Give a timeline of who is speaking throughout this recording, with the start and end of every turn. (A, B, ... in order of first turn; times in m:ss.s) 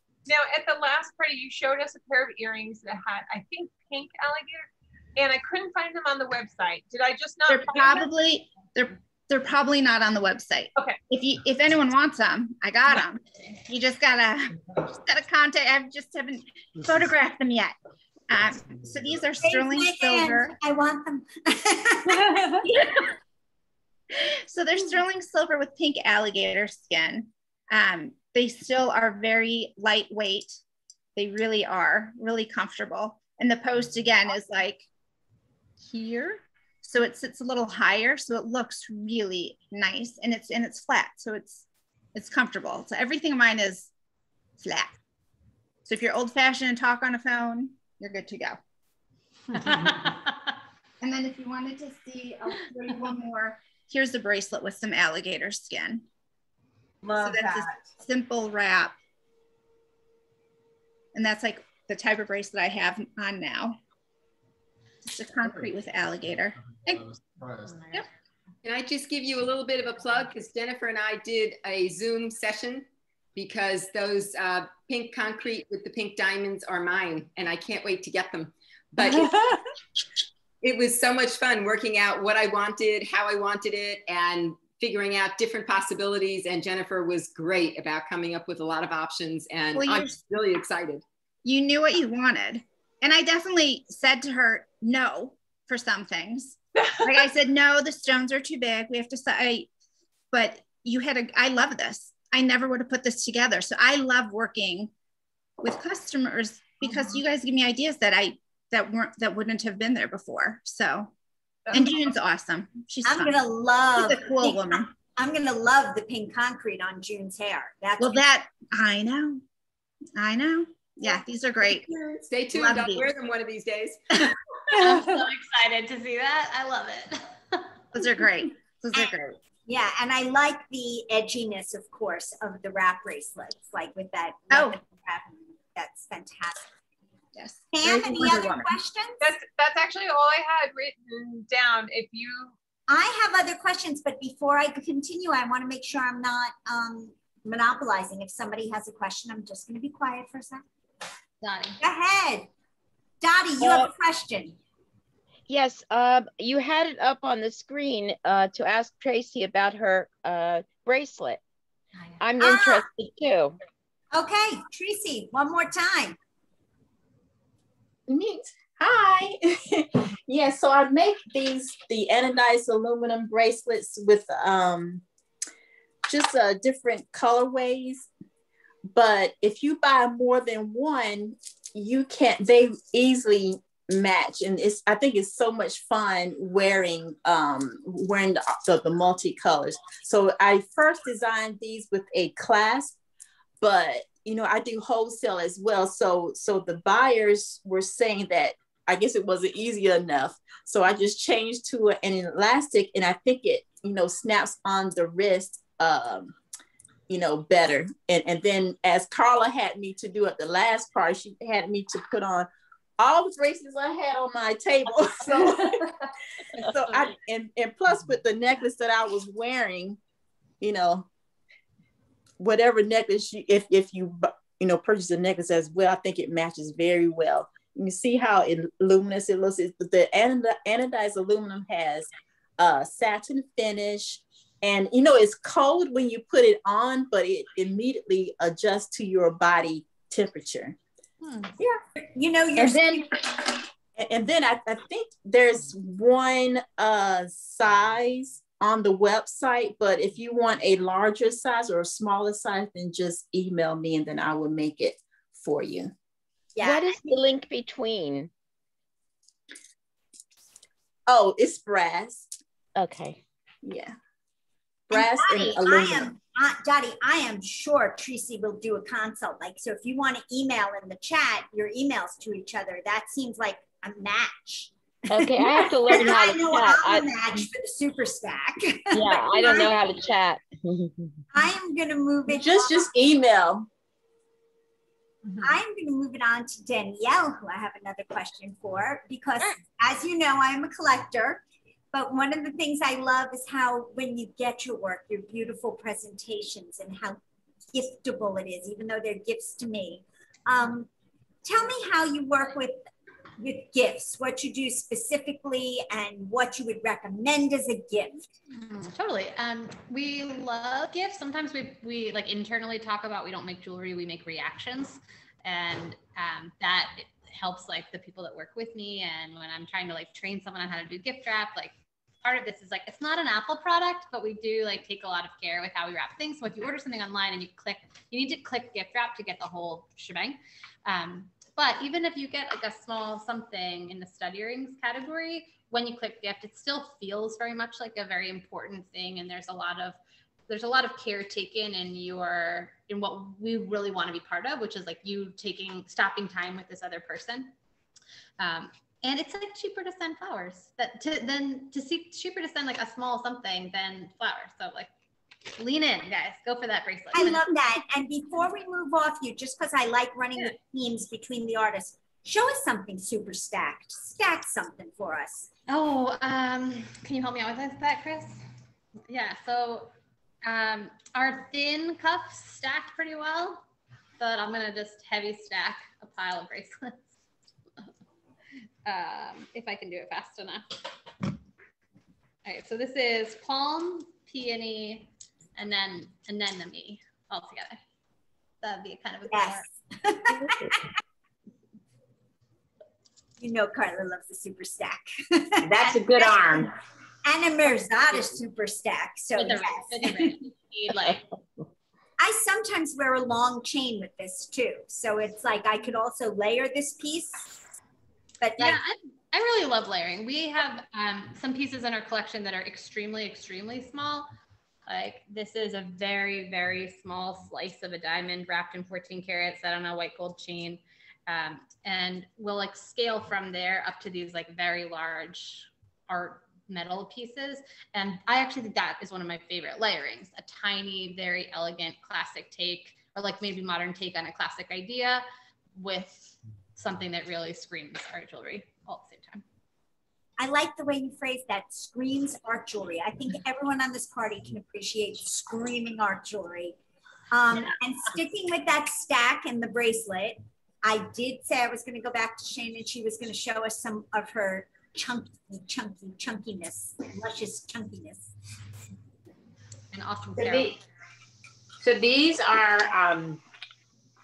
0:00.2-0:08.1 A
0:07.5-0:17.8 B
0:18.3-0:20.5 B
0:19.4-0:23.0 C
0:24.2-0:30.6 B
0:31.2-0:34.8 B
0:35.8-0:43.9 B
0:44.6-0:45.0 B
0:45.8-0:48.6 B
0:49.5-0:50.1 B
0:49.5-0:50.2 D
0:51.0-0:56.0 B
0:57.0-0:57.9 E
0:57.2-0:58.9 B
1:01.1-1:03.8 B
1:05.0-1:07.1 B
1:08.6-1:19.6 E
1:20.6-1:31.0 E
1:29.7-1:30.2 B
1:31.4-1:39.7 B
1:40.3-1:44.9 B
1:45.6-1:51.1 B
1:51.7-1:51.9 A
1:51.7-1:53.3 B
1:53.0-1:58.2 C
1:54.0-1:54.9 B
1:58.0-1:59.4 B
2:00.2-2:01.9 B
2:01.6-2:05.2 E
2:02.5-2:03.1 B
2:04.8-2:07.8 D
2:07.9-2:09.4 B
2:09.6-2:16.7 C
2:14.5-2:14.8 B
2:17.3-2:18.8 B
2:17.7-2:19.2 C
2:19.2-2:22.5 A
2:22.9-2:30.6 C
2:31.4-2:31.8 D
2:31.8-2:32.5 C
2:33.2-2:34.6 C
2:35.5-2:41.4 F
2:42.0-2:42.2 D
2:42.2-2:43.6 F
2:42.4-2:42.8 C
2:44.1-2:46.2 C
2:48.1-2:55.0 G
2:56.0-2:58.1 G
2:58.9-3:13.0 G
3:13.6-3:26.3 G
3:27.1-3:35.8 G
3:36.5-3:40.0 G
3:40.6-3:41.1 G
3:42.4-4:00.8 G
4:01.2-4:01.5 D
4:01.6-4:03.1 C
4:02.6-4:03.2 G
4:03.9-4:15.9 G
4:16.5-4:17.1 C
4:16.6-4:18.3 F
4:21.1-4:22.3 G
4:22.8-4:23.2 F
4:23.6-4:23.9 G
4:24.9-4:26.1 G
4:24.9-4:34.7 C
4:35.1-4:37.4 F
4:35.3-4:39.8 C
4:38.9-4:40.9 F
4:41.3-4:42.9 C
4:42.3-4:43.7 G
4:45.4-4:51.4 C
4:51.9-4:57.2 C
4:57.7-5:00.9 C
5:01.4-5:02.8 C
5:03.4-5:08.3 C
5:08.6-5:47.5 D
5:48.4-5:54.9 D
5:55.6-5:57.5 D
5:57.1-6:05.5 C
6:05.7-6:08.4 D
6:09.1-6:09.9 D
6:10.4-6:13.6 D
6:14.2-6:17.0 D
6:18.8-6:20.6 D
6:22.4-6:27.8 D
6:28.6-6:29.7 D
6:29.3-6:30.8 C
6:33.4-6:36.7 C
6:35.6-6:36.7 H
6:37.2-6:40.4 C
6:39.4-6:41.2 D
6:42.2-6:47.6 C
6:48.4-6:48.8 C
6:48.6-6:54.3 D
6:54.9-7:15.2 D
7:15.7-7:19.4 D
7:20.4-7:26.8 C
7:27.3-7:38.3 C
7:39.9-7:40.8 D
7:40.3-7:40.7 H
7:41.8-7:43.4 H